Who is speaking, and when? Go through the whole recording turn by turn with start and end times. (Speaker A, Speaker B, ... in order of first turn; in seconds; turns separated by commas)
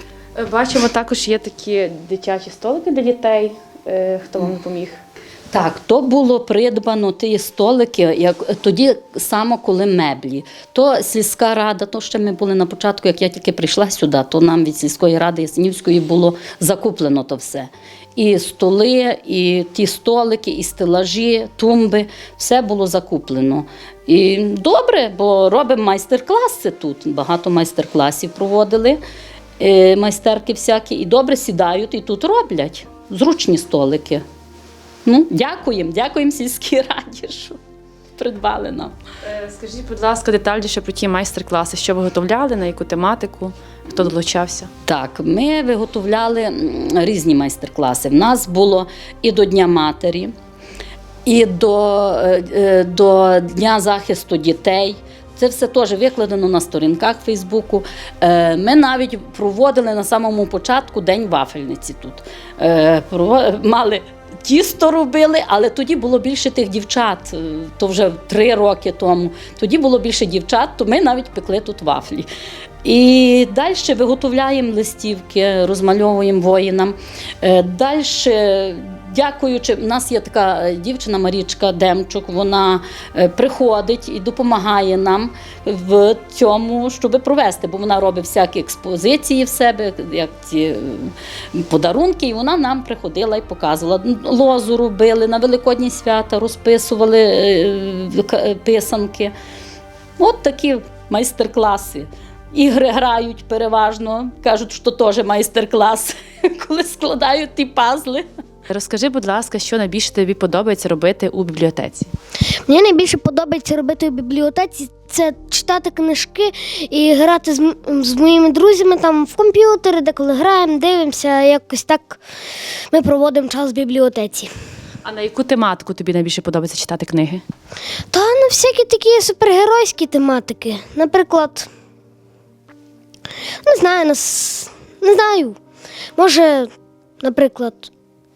Speaker A: 0.3-5.0, Speaker B: 5.5-29.0, Speaker B: 29.6-34.2, Speaker B: 35.0-37.6, Speaker B: 38.2-38.9, Speaker A: 39.2-44.7, Speaker B: 44.9-50.3, Speaker B: 51.2-72.3, Speaker B: 72.8-99.3, Speaker B: 100.2-108.2, Speaker A: 108.7-112.1, Speaker C: 112.7-122.2, Speaker C: 122.9-124.5, Speaker A: 125.0-127.4, Speaker C: 128.1-131.7, Speaker C: 133.6-135.6, Speaker C: 136.2-136.7, Speaker C: 137.2-137.9